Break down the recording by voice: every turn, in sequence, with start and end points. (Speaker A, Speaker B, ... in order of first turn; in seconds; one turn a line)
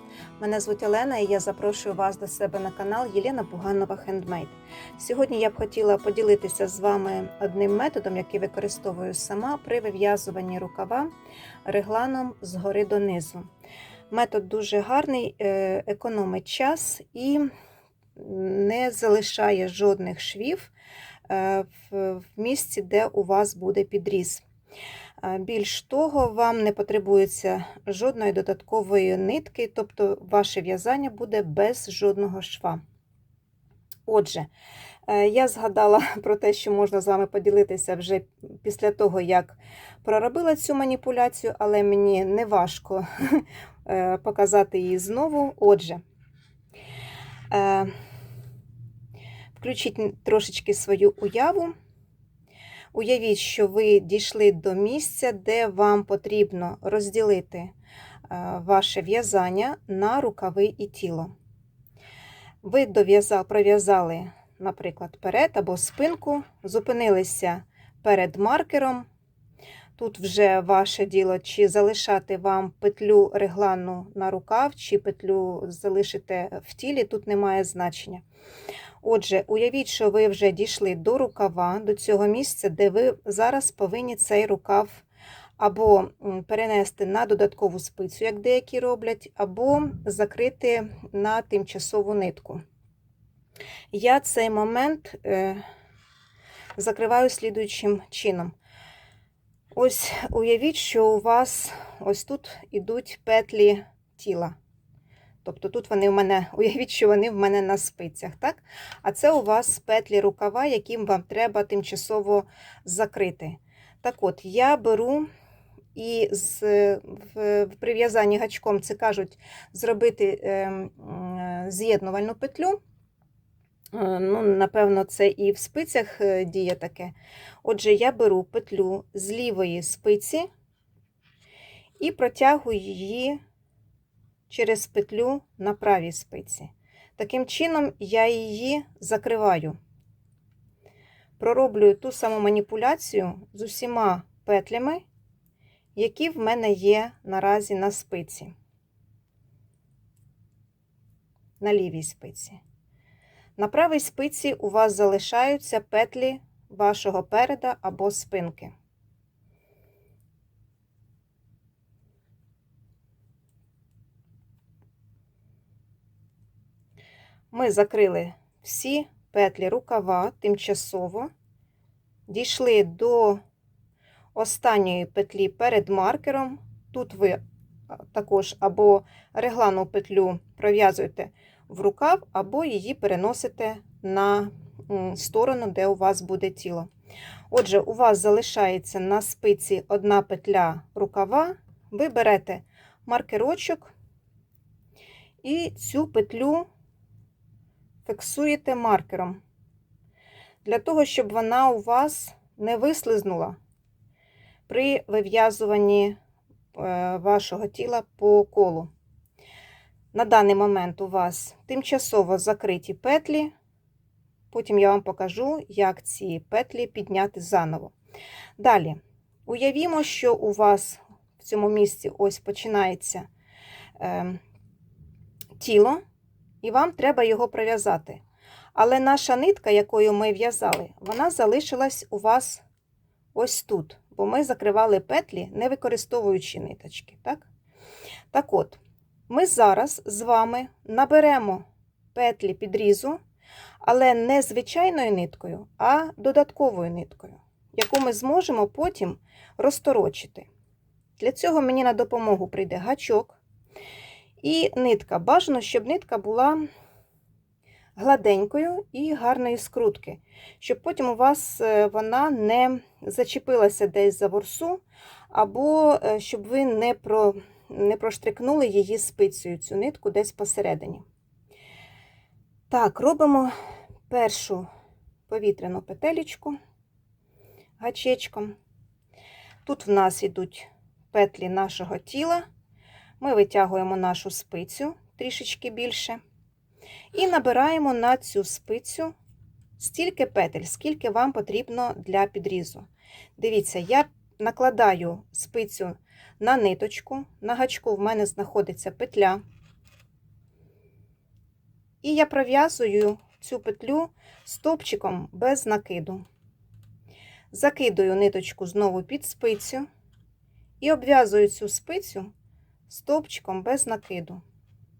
Speaker A: 0.4-11.1
Speaker A: 11.6-13.5
Speaker A: 14.1-17.5
Speaker A: 18.2-20.7
Speaker A: 21.3-24.4
Speaker A: 25.2-32.8
Speaker A: 34.1-34.5
Speaker A: 35.1-46.0
Speaker A: 47.5-47.9
Speaker A: 49.5-51.7
Speaker A: 52.9-57.7
Speaker A: 58.3-61.3
Speaker A: 62.6-69.0
Speaker A: 70.0-78.2
Speaker A: 79.0-85.0
Speaker A: 85.6-92.6
Speaker A: 93.9-95.6
Speaker A: 96.8-98.5
Speaker A: 99.7-104.5
Speaker A: 105.4-115.3
Speaker A: 115.9-122.8
Speaker A: 123.9-130.5
Speaker A: 132.0-133.4
Speaker A: 134.5-139.8
Speaker A: 141.4-145.0
Speaker A: 145.9-148.5
Speaker A: 151.6-152.6
Speaker A: 153.6-158.7
Speaker A: 167.5-171.3
Speaker A: 172.3-173.4
Speaker A: 174.3-177.4
Speaker A: 178.1-186.9
Speaker A: 187.5-193.9
Speaker A: 195.4-196.7
Speaker A: 198.1-199.4
Speaker A: 200.6-203.6
Speaker A: 204.7-206.2
Speaker A: 206.7-208.9
Speaker A: 210.1-213.5
Speaker A: 214.5-217.9
Speaker A: 218.6-223.3
Speaker A: 224.0-224.4
Speaker A: 225.6-226.0
Speaker A: 226.6-228.2
Speaker A: 228.7-232.6
Speaker A: 233.3-237.5
Speaker A: 238.3-243.2
Speaker A: 243.8-250.5
Speaker A: 251.2-253.4
Speaker A: 254.4-256.6
Speaker A: 257.9-271.0
Speaker A: 272.7-273.5
Speaker A: 274.1-274.6
Speaker A: 275.3-276.6
Speaker A: 277.8-278.5
Speaker A: 279.6-282.4
Speaker A: 283.2-286.2
Speaker A: 287.1-289.1
Speaker A: 289.8-299.4
Speaker A: 302.0-306.2
Speaker A: 307.5-309.9
Speaker A: 310.8-312.3
Speaker A: 312.9-314.4